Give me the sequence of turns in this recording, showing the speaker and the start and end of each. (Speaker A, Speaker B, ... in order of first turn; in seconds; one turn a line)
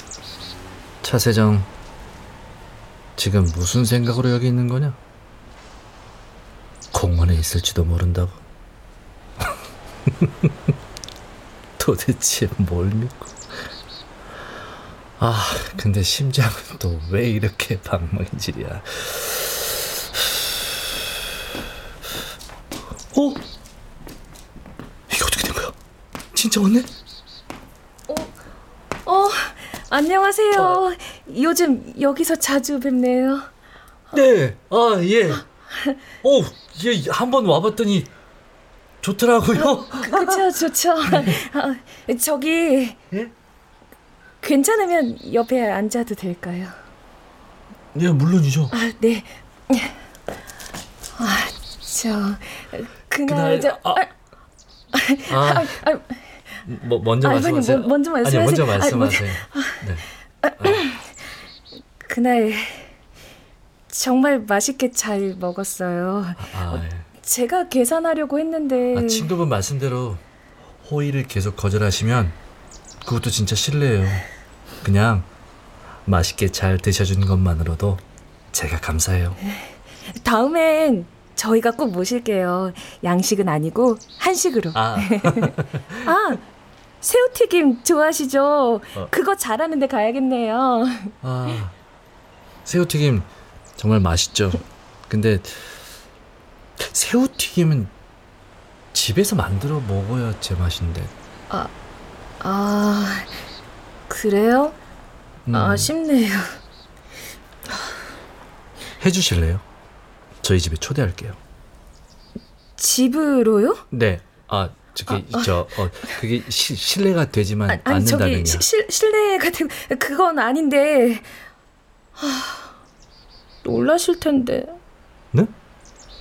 Speaker A: 1.0-1.7
Speaker A: 3.2-5.0
Speaker A: 6.9-8.4
Speaker A: 10.1-10.5
Speaker A: 11.8-13.5
Speaker A: 15.2-19.9
Speaker A: 23.1-23.4
Speaker A: 25.1-25.7
Speaker A: 26.3-26.9
Speaker B: 28.1-28.4
Speaker B: 29.1-33.5
Speaker A: 34.1-35.5
Speaker B: 35.7-36.0
Speaker A: 36.2-38.1
Speaker A: 39.0-40.4
Speaker B: 39.6-43.0
Speaker A: 41.1-41.3
Speaker B: 44.4-46.8
Speaker A: 47.9-48.7
Speaker B: 48.7-50.0
Speaker B: 51.2-54.1
Speaker A: 53.3-54.1
Speaker B: 54.9-56.6
Speaker A: 55.3-55.8
Speaker A: 56.7-60.1
Speaker B: 57.2-59.8
Speaker B: 60.4-61.2
Speaker B: 62.0-62.9
Speaker B: 63.9-69.3
Speaker A: 66.4-67.1
Speaker A: 68.9-70.2
Speaker A: 70.8-72.4
Speaker A: 73.0-74.3
Speaker A: 74.8-75.3
Speaker A: 76.1-78.0
Speaker A: 78.5-79.4
Speaker B: 79.5-86.4
Speaker A: 84.7-86.1
Speaker B: 87.0-91.1
Speaker A: 91.2-91.7
Speaker A: 92.7-95.8
Speaker A: 96.8-97.9
Speaker A: 98.9-101.1
Speaker B: 102.4-103.3
Speaker B: 104.1-104.8
Speaker A: 105.5-105.9
Speaker B: 105.5-106.6
Speaker A: 109.0-109.6
Speaker A: 110.4-111.4
Speaker B: 112.8-113.8
Speaker A: 113.9-118.7
Speaker B: 115.1-115.5
Speaker B: 117.7-121.3
Speaker B: 122.2-122.7
Speaker B: 123.6-124.8